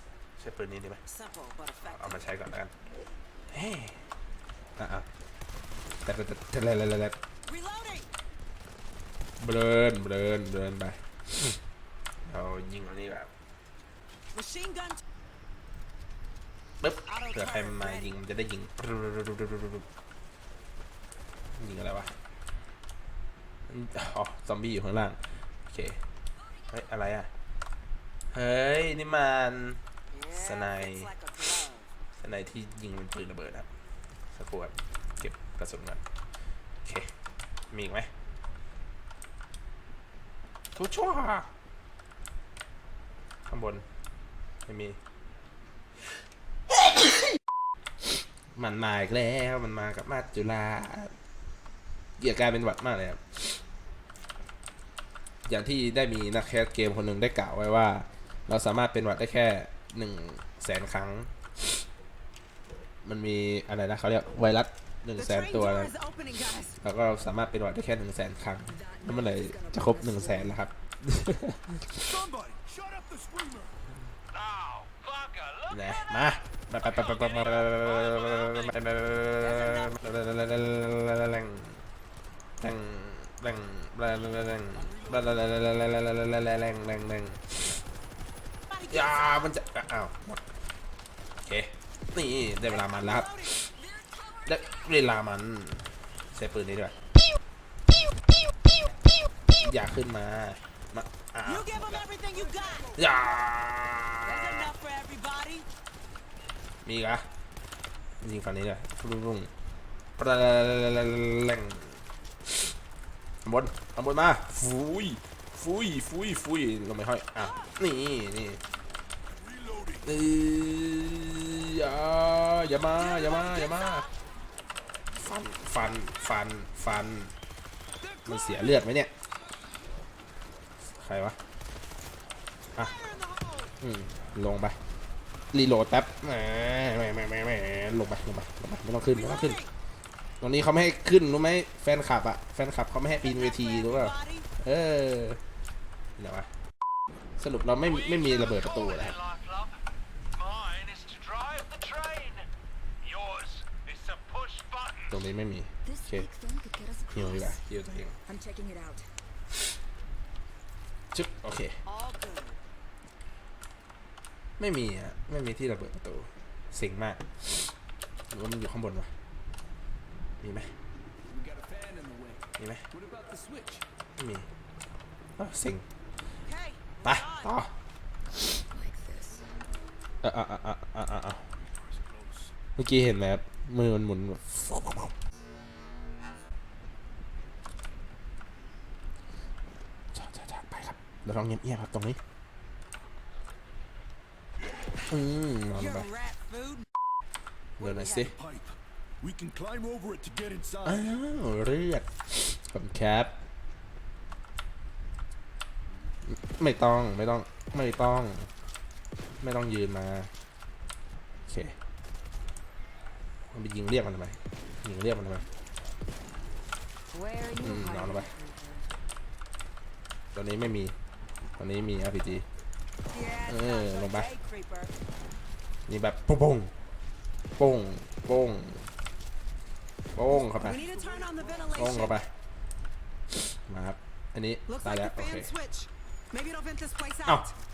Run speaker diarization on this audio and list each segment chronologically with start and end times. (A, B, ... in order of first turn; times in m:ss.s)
0:00.4-0:01.0 A
0:01.1-0:02.2 B
0:01.8-0:02.7 A
0:03.5-0:04.0 A
0:04.8-0:05.1 A
0:06.0-0:07.2 A
0:07.4-0:08.1 B
0:09.4-0:11.6 A
0:12.2-0:13.3 A
0:14.3-0:15.0 B
0:16.8-0:19.9 A
0:17.1-0:18.1 B
0:21.6-0:22.1 A
0:23.7-0:26.0 A
0:26.7-0:27.3 A
0:28.3-0:29.8 A
0:30.1-0:31.9 B
0:30.3-0:31.1 A
0:32.2-0:33.7 A
0:34.3-0:36.0 A
0:36.8-0:37.1 A
0:37.7-0:38.1 A
0:40.8-0:41.5 A
0:43.5-0:43.8 A
0:44.6-0:45.0 A
0:48.5-0:51.1 A
0:52.2-0:53.6 A
0:55.5-1:01.8 A
1:03.0-1:05.9 A
1:05.2-1:06.8 B
1:06.8-1:12.2 A
1:08.7-1:10.7 C
1:11.9-1:13.8 D
1:14.3-1:18.7 E
1:15.7-1:21.9 A
1:19.4-1:20.0 B
1:22.6-1:27.8 A
1:24.7-1:25.5 D
1:28.7-1:29.4 B
1:28.9-1:30.4 A
1:31.4-1:33.4 A
1:32.6-1:33.6 B
1:33.6-1:35.0 C
1:34.4-1:36.9 A
1:39.6-1:41.7 A
1:41.4-1:42.9 B
1:41.7-1:43.5 D
1:43.0-1:44.7 A
1:44.2-1:45.7 B
1:46.8-1:47.2 A
1:48.2-1:49.5 A
1:50.2-1:52.0 A
1:53.4-1:58.6 A
1:57.4-1:57.8 B
1:59.3-2:00.1 D
2:00.0-2:04.1 A
2:03.0-2:04.1 B
2:05.1-2:07.3 A
2:08.0-2:08.8 D
2:08.2-2:09.1 A
2:10.9-2:11.4 A
2:12.8-2:13.8 B
2:13.8-2:14.8 A
2:15.5-2:19.6 A
2:19.1-2:19.7 B
2:20.4-2:25.4 A
2:23.1-2:24.5 B
2:26.2-2:26.5 A
2:27.4-2:29.1 A
2:27.8-2:29.7 E
2:30.4-2:32.4 E
2:33.0-2:35.2 E
2:35.1-2:36.3 A
2:35.8-2:37.6 C
2:37.1-2:38.1 A
2:38.2-2:39.1 C
2:41.1-2:41.8 A
2:41.8-2:42.6 B
2:44.6-2:47.7 A
2:48.3-2:49.1 A
2:50.4-2:50.7 A
2:51.3-2:53.8 D
2:52.6-2:52.8 A
2:54.2-2:54.5 A
2:55.4-2:55.9 A
2:56.5-2:57.6 B
2:57.0-2:57.7 A
2:58.7-2:59.5 C
3:00.2-3:01.5 A
3:01.6-3:02.5 D
3:02.8-3:05.1 A
3:10.1-3:12.2 A
3:15.1-3:16.1 A
3:15.7-3:16.9 B
3:17.8-3:18.3 A
3:17.8-3:18.3 B
3:18.3-3:21.1 D
3:20.8-3:23.4 A
3:26.3-3:28.5 A
3:29.4-3:30.3 A
3:31.5-3:31.8 A
3:33.5-3:35.4 A
3:37.1-3:38.8 C
3:37.6-3:38.3 A
3:40.3-3:41.0 A
3:41.6-3:42.5 A
3:43.1-3:44.9 B
3:43.5-3:44.3 A
3:45.9-3:46.7 A
3:47.6-3:48.9 A
3:50.1-3:50.8 A
3:50.3-3:52.2 B
3:50.4-3:52.1 D
3:51.8-3:52.3 A
3:53.3-3:55.5 A
3:54.7-3:57.5 B